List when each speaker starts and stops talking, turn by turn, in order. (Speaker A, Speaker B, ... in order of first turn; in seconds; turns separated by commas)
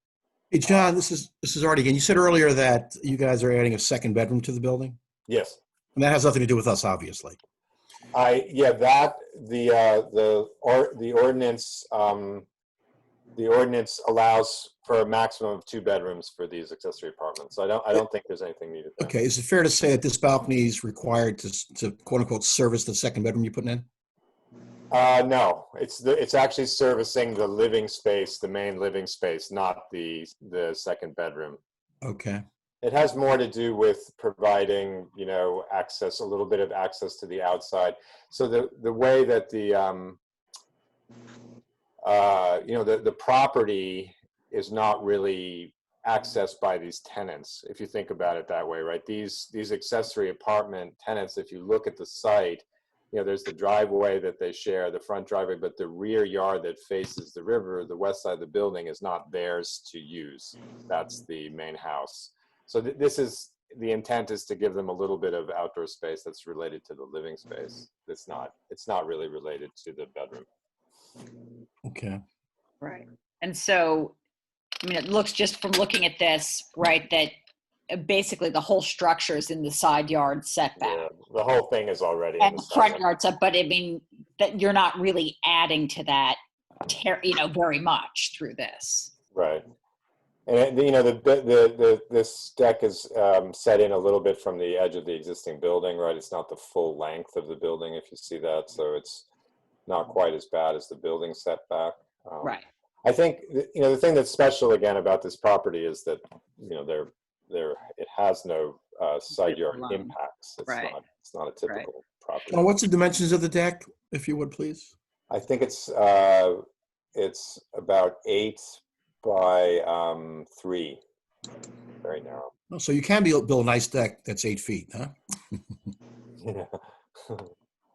Speaker A: 0.5-5.0, Speaker B: 0.7-0.9, Speaker B: 5.3-5.6, Speaker A: 6.0-7.4, Speaker B: 8.1-12.5, Speaker B: 13.4-19.1, Speaker A: 19.0-23.9, Speaker B: 24.9-31.6, Speaker A: 32.0-32.4, Speaker B: 32.8-40.2, Speaker B: 42.0-70.5, Speaker A: 71.8-72.2, Speaker C: 72.8-74.1, Speaker C: 74.8-77.3, Speaker C: 77.9-81.0, Speaker B: 80.8-83.1, Speaker C: 82.4-89.1, Speaker B: 89.3-89.6, Speaker B: 90.5-99.3, Speaker B: 99.9-112.7, Speaker C: 109.4-110.1, Speaker C: 110.7-110.9, Speaker A: 112.5-114.9, Speaker B: 115.3-116.6, Speaker B: 117.2-121.0, Speaker B: 122.0-122.5, Speaker A: 122.7-125.1, Speaker B: 126.4-126.8